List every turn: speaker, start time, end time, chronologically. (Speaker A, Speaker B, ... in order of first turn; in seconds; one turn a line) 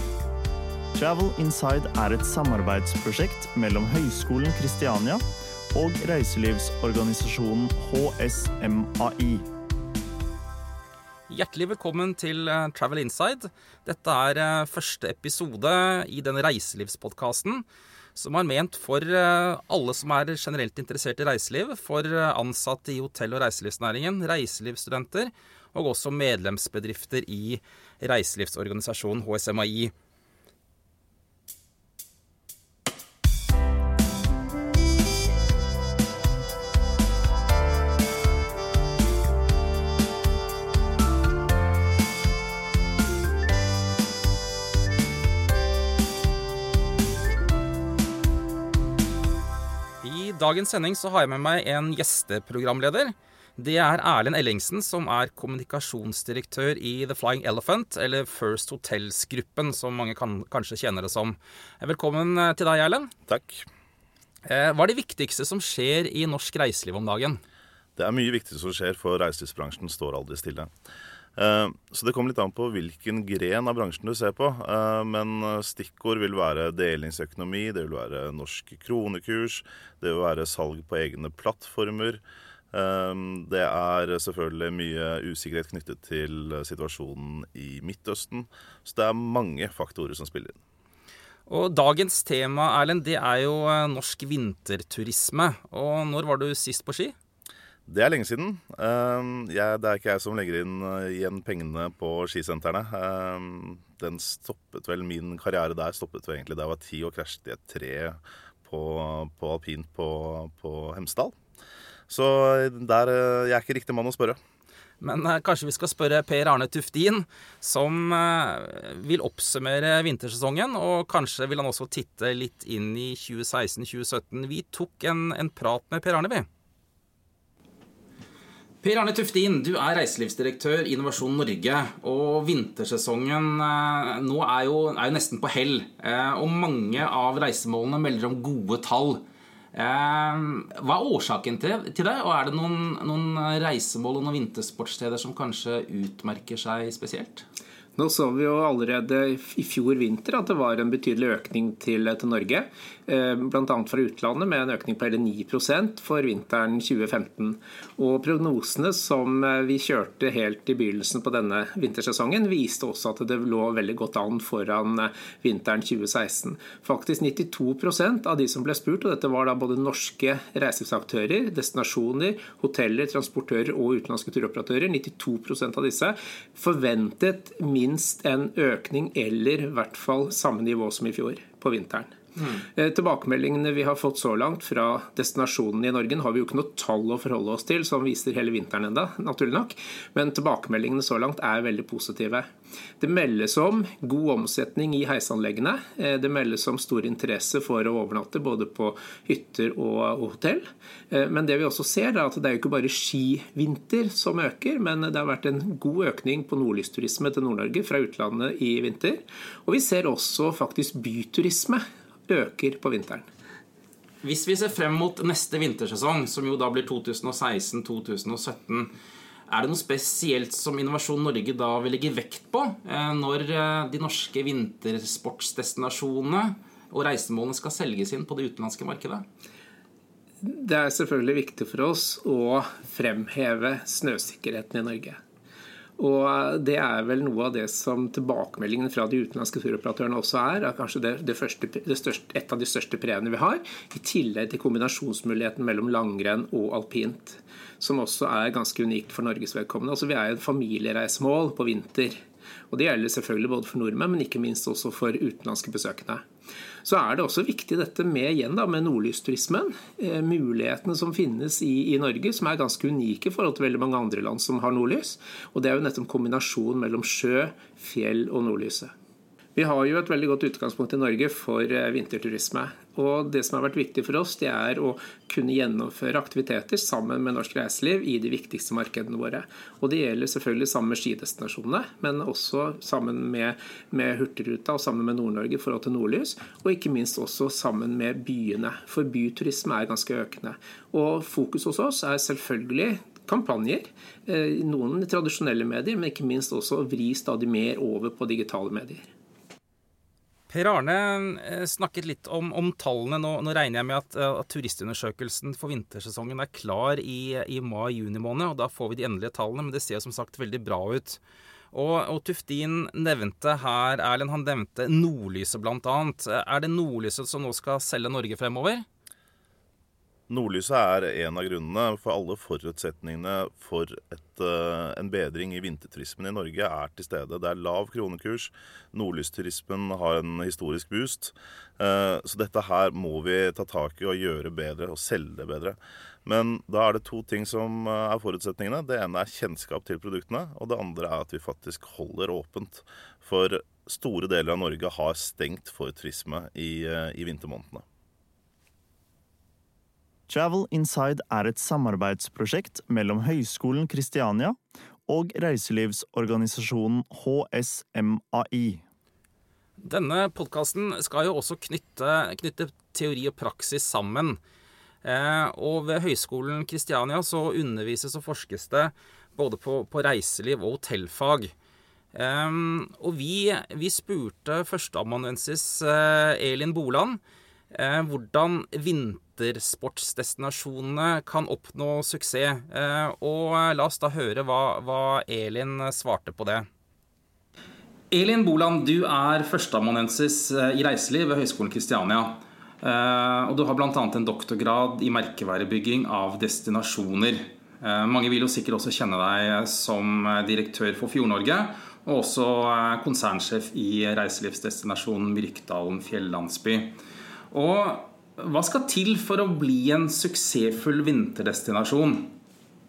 Speaker A: 0.9-9.5
Speaker B: 11.3-29.9
Speaker B: 50.0-63.1
Speaker C: 63.3-63.6
Speaker B: 64.5-67.4
Speaker C: 68.0-70.7
Speaker C: 71.3-82.2
Speaker C: 82.7-90.6
Speaker B: 91.5-97.1
Speaker C: 97.9-111.4
Speaker C: 112.1-114.4
Speaker B: 115.0-126.5
Speaker B: 128.8-147.4
Speaker D: 147.9-213.3
Speaker B: 214.2-218.9
Speaker B: 219.5-229.2
Speaker D: 230.4-235.2
Speaker D: 236.0-256.2
Speaker D: 256.8-268.9
Speaker D: 269.5-299.1
Speaker B: 300.5-311.2
Speaker B: 311.7-318.8
Speaker C: 320.3-347.8
Speaker A: 350.3-358.8
Speaker B: 359.8-364.4
Speaker B: 365.0-371.5
Speaker B: 372.1-377.2
Speaker B: 377.7-386.7
Speaker B: 388.1-406.9
Speaker B: 407.5-412.3